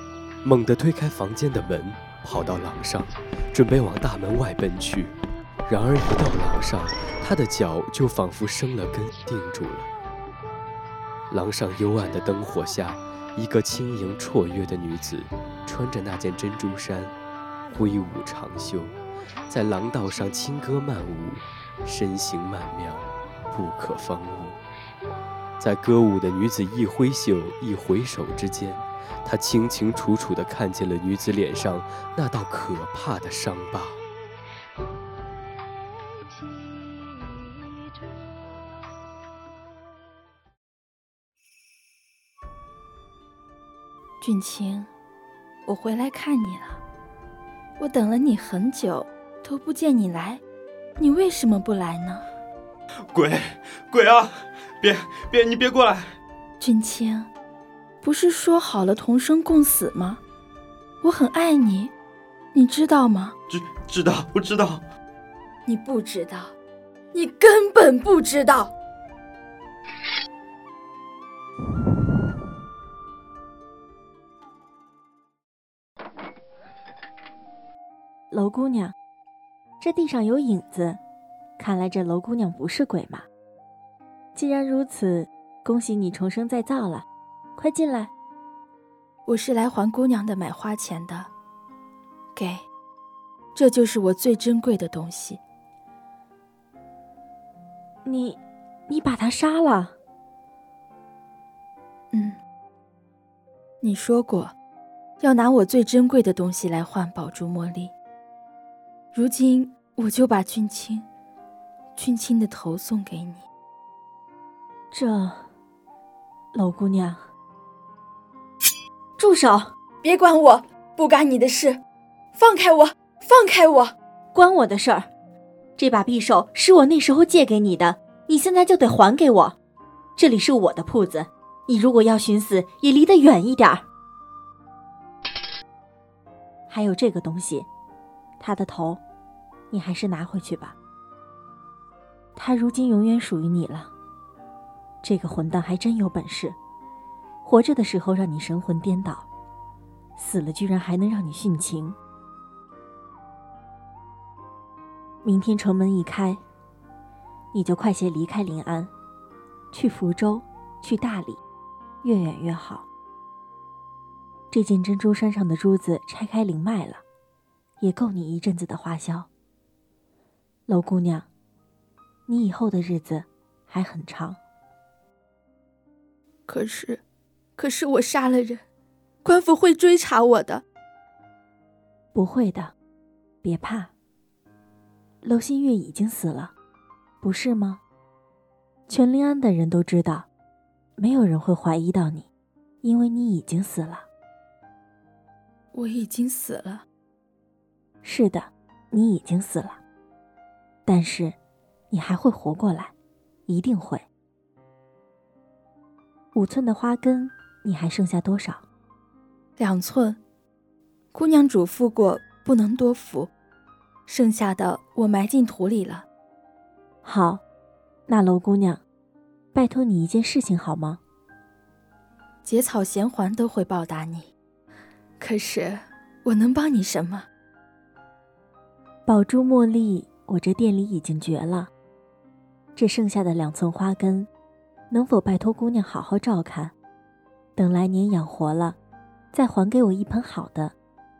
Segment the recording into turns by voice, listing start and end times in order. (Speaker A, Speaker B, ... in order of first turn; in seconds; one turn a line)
Speaker A: 0.4-9.9
Speaker A: 11.3-17.1
Speaker A: 17.7-19.0
Speaker A: 19.5-24.6
Speaker A: 25.6-34.0
Speaker B: 44.2-44.9
Speaker B: 45.6-46.8
Speaker B: 47.8-50.4
Speaker B: 51.0-52.2
Speaker C: 53.1-54.2
Speaker C: 54.8-56.0
Speaker B: 56.6-57.3
Speaker B: 58.0-60.2
Speaker B: 61.0-61.9
Speaker B: 62.5-63.3
Speaker C: 63.5-64.8
Speaker B: 65.7-66.5
Speaker B: 67.1-68.7
Speaker D: 78.3-78.9
Speaker D: 79.8-81.0
Speaker D: 81.6-83.3
Speaker D: 84.3-88.1
Speaker B: 89.3-91.3
Speaker B: 92.3-92.7
Speaker B: 93.5-95.4
Speaker D: 98.0-99.9
Speaker B: 102.1-102.4
Speaker B: 103.8-104.5
Speaker B: 105.2-107.9
Speaker B: 109.1-111.0
Speaker B: 112.0-113.5
Speaker D: 114.9-115.4
Speaker D: 116.5-117.2
Speaker D: 119.2-119.7
Speaker B: 120.0-121.8
Speaker B: 122.3-123.9
Speaker D: 124.3-125.1
Speaker D: 125.8-129.6
Speaker D: 130.2-133.8
Speaker D: 136.7-137.7
Speaker D: 138.4-139.0
Speaker D: 139.7-140.8
Speaker D: 142.3-143.9
Speaker D: 145.0-146.6
Speaker D: 147.4-149.3
Speaker D: 150.2-152.0
Speaker D: 155.2-156.4
Speaker D: 157.5-158.9
Speaker D: 159.7-161.4
Speaker D: 162.0-162.9
Speaker D: 164.5-167.0
Speaker D: 167.8-169.3
Speaker D: 170.7-171.3
Speaker D: 172.3-174.4
Speaker B: 176.5-177.0
Speaker B: 177.6-178.6
Speaker B: 179.2-180.6
Speaker D: 182.1-182.7
Speaker D: 183.4-183.9
Speaker D: 185.2-186.5
Speaker D: 187.2-187.8
Speaker D: 188.9-190.3
Speaker D: 191.0-192.3
Speaker D: 192.8-194.1
Speaker B: 195.7-196.8
Speaker D: 198.0-199.8
Speaker D: 200.8-201.3
Speaker D: 201.9-202.9
Speaker D: 203.5-204.1
Speaker D: 206.3-208.6
Speaker B: 209.6-210.2
Speaker B: 211.1-213.3
Speaker B: 214.1-216.1
Speaker D: 217.0-217.4
Speaker D: 218.1-218.8
Speaker D: 219.5-221.0
Speaker B: 222.4-224.3
Speaker B: 225.2-227.3
Speaker D: 229.1-231.7
Speaker D: 232.8-234.3
Speaker D: 234.9-236.7
Speaker D: 237.6-238.8
Speaker D: 239.3-240.8